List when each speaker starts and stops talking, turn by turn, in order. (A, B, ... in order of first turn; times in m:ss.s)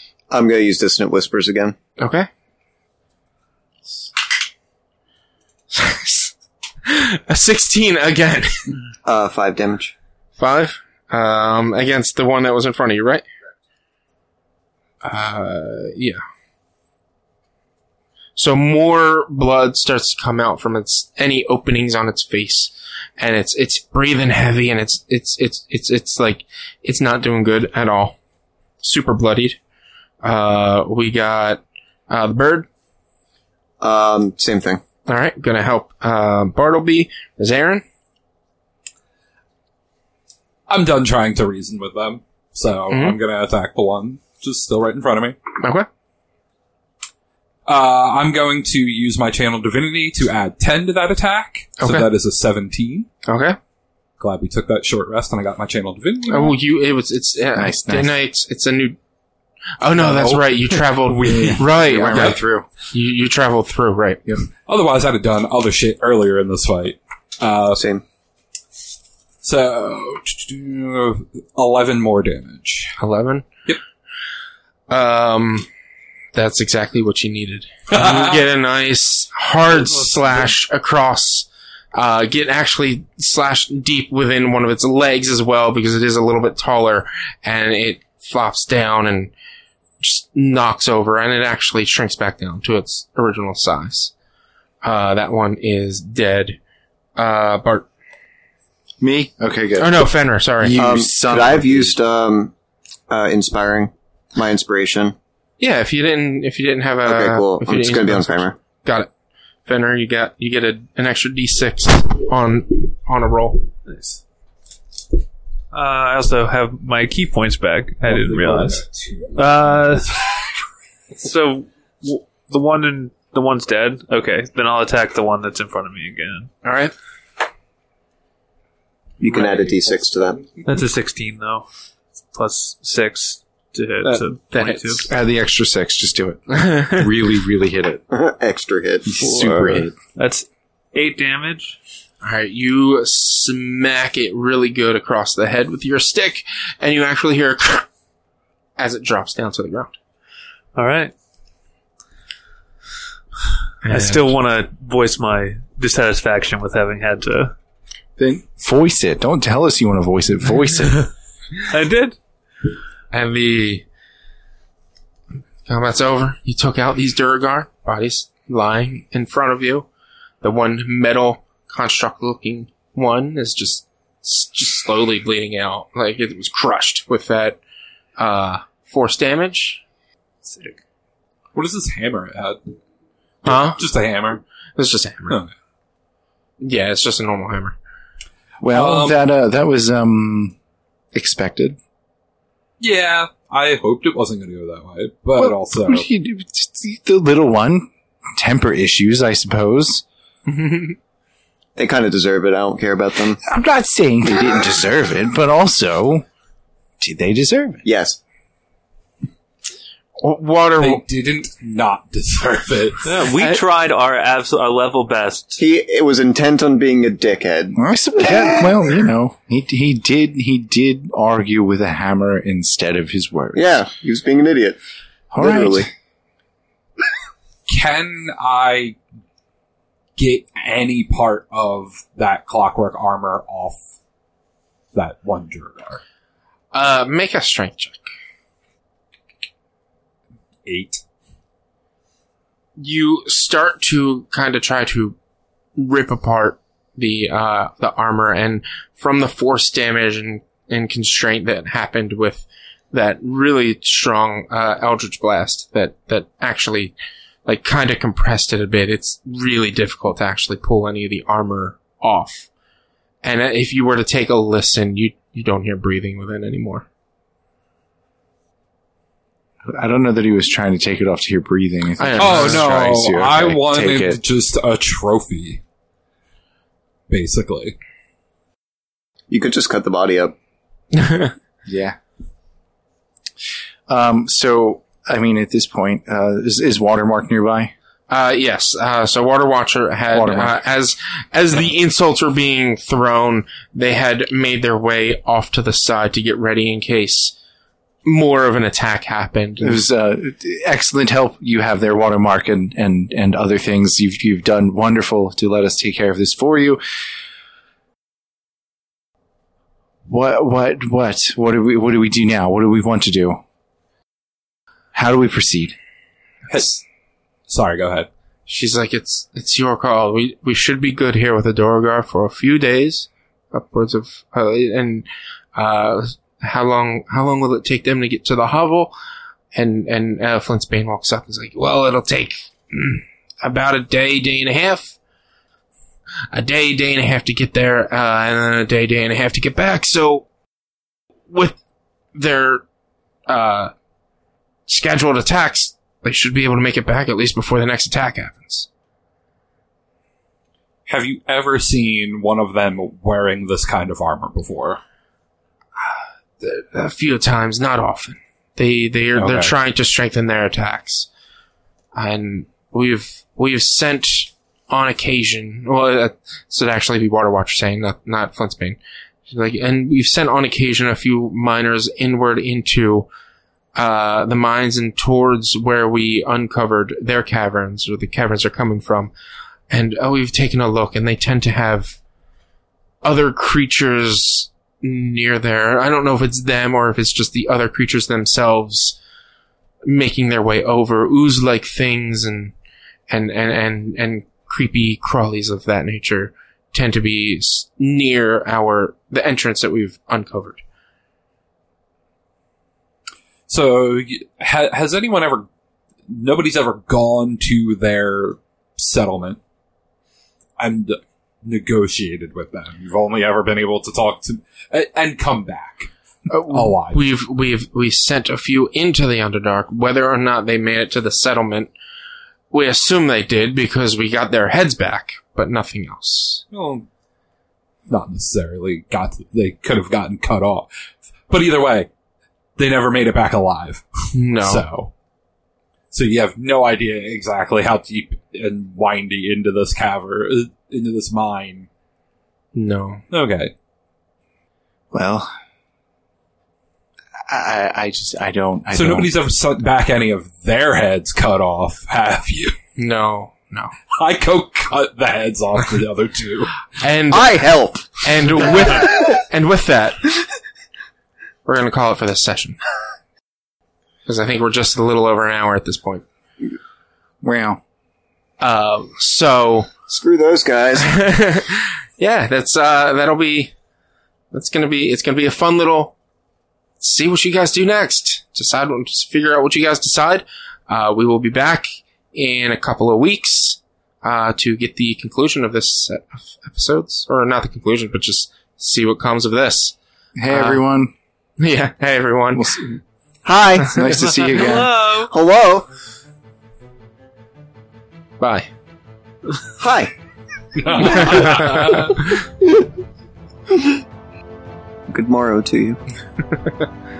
0:00.3-0:01.8 A
0:02.0-0:02.3 B
0:05.7-0:06.3 B
0:06.9-0:08.7 B
0:09.0-0:09.9 A
0:10.4-0:13.2 B
0:15.0-0:16.2 B
0:18.4-0:28.2 B
0:28.8-0:29.6 B
0:30.2-0:32.7 B
0:33.8-0:34.8 A
0:35.1-0:37.8 B
0:40.7-0:45.4 C
0:42.9-0:43.2 B
0:45.6-0:45.9 B
0:47.7-0:53.1 C
0:51.8-0:52.1 B
0:53.3-0:53.6 B
0:54.2-0:56.6 C
0:56.3-0:59.0 B
0:57.6-0:58.1 D
0:59.8-1:02.4 B
1:00.0-1:02.3 C
1:01.3-1:02.7 D
1:02.9-1:04.2 B
1:04.7-1:07.8 C
1:07.7-1:08.0 A
1:09.4-1:13.0 C
1:13.0-1:13.5 B
1:14.9-1:15.7 B
1:16.4-1:29.3 B
1:17.9-1:18.4 C
1:19.7-1:20.5 C
1:30.0-1:34.1 B
1:34.8-1:36.6 B
1:37.2-1:37.9 B
1:39.0-1:40.1 D
1:39.8-1:40.8 B
1:40.6-1:42.0 D
1:40.8-1:42.5 A
1:43.1-1:45.1 A
1:45.6-1:49.1 B
1:47.0-1:48.6 A
1:49.7-1:53.7 B
1:53.9-1:54.2 E
1:55.7-1:58.8 E
1:58.0-2:00.5 C
1:59.4-2:00.2 E
2:01.2-2:06.5 E
2:06.6-2:06.9 B
2:09.2-2:10.4 A
2:10.6-2:11.7 E
2:12.3-2:15.0 E
2:14.0-2:15.1 B
2:15.1-2:18.0 D
2:16.5-2:17.0 B
2:18.1-2:19.9 A
2:19.0-2:19.9 D
2:20.1-2:21.8 E
2:22.2-2:27.9 B
2:28.8-2:29.9 B
2:30.7-2:31.1 E
2:33.8-2:34.3 B
2:33.9-2:37.5 E
2:38.2-2:41.1 D
2:41.6-2:42.2 E
2:43.1-2:43.8 B
2:45.6-2:49.9 B
2:50.4-2:57.6 B
2:58.2-2:59.8 B
3:00.5-3:00.7 E
3:01.5-3:02.6 C
3:03.4-3:03.8 B
3:03.6-3:04.4 C
3:04.8-3:05.4 B
3:06.6-3:07.8 B
3:08.6-3:10.6 D
3:08.7-3:09.2 C
3:11.1-3:11.8 D
3:12.8-3:16.0 C
3:15.4-3:20.0 D
3:20.4-3:21.0 B
3:21.8-3:23.4 A
3:23.4-3:26.2 D
3:27.0-3:27.8 D
3:27.8-3:28.2 A
3:30.2-3:31.0 B
3:30.8-3:33.1 C
3:33.0-3:35.6 E
3:35.6-3:37.8 A
3:37.7-3:43.8 D
3:43.6-3:44.8 A
3:45.3-3:45.9 D
3:45.4-3:45.9 A
3:47.7-3:49.0 C
3:50.2-3:53.8 C
3:54.9-3:56.0 C
3:56.7-3:58.0 B
4:00.6-4:01.0 C
4:02.8-4:05.2 B
4:05.8-4:17.0 B
4:17.4-4:22.5 B
4:23.2-4:26.9 B
4:29.7-4:34.2 D
4:32.0-4:32.7 B
4:32.2-4:35.6 C
4:37.1-4:37.8 C
4:39.3-4:40.4 A
4:40.9-4:41.3 B
4:41.7-4:42.0 D
4:43.9-4:47.7 D
4:48.1-4:57.4 B
4:50.1-4:50.6 D
4:58.0-4:59.8 B
4:59.6-5:06.8 D
5:10.1-5:13.4 D
5:14.9-5:15.8 D
5:16.5-5:16.8 C
5:17.5-5:18.1 C
5:18.5-5:28.9 B
5:29.6-5:35.0 B
5:36.3-5:40.3 B
5:41.3-5:41.6 B
5:42.1-5:42.6 B
5:43.3-5:43.7 B
5:44.7-5:48.7 B
5:50.9-5:54.8 C
5:55.8-6:01.1 B
5:59.2-5:59.5 C
6:02.0-6:13.1 B
6:13.7-6:19.1 B
6:19.7-6:22.0 B
6:23.0-6:29.0 B
6:29.8-6:32.5 B
6:33.1-6:40.6 B
6:43.5-6:45.5 C
6:46.1-6:49.4 C
6:50.6-6:57.0 C
6:56.3-7:01.7 B
7:02.5-7:06.4 B
7:06.5-7:06.9 C
7:07.9-7:10.7 C
7:11.3-7:11.9 C
7:12.6-7:13.8 C
7:14.1-7:14.7 B
7:14.4-7:14.9 C
7:15.9-7:21.7 C
7:22.6-7:23.0 B
7:23.1-7:23.5 C
7:24.9-7:25.3 D
7:27.3-7:29.1 D
7:28.7-7:32.6 C
7:32.8-7:33.7 B
7:33.9-7:36.6 C
7:36.8-7:40.0 B
7:37.1-7:39.1 A
7:41.4-7:42.6 B
7:44.0-7:46.0 B
7:47.2-7:47.6 D
7:48.4-7:49.7 B
7:49.9-7:50.9 A
7:50.8-7:53.5 B
7:54.3-7:55.9 B
7:56.8-8:09.8 B
8:10.2-8:10.9 D
8:10.3-8:10.6 B
8:11.4-8:12.5 B
8:12.3-8:12.8 D
8:13.2-8:15.7 A
8:13.7-8:14.8 D
8:14.4-8:15.1 E
8:18.2-8:18.5 B
8:19.6-8:19.9 A
8:20.6-8:22.1 C
8:20.7-8:21.5 A
8:21.0-8:22.0 B
8:24.9-8:25.8 A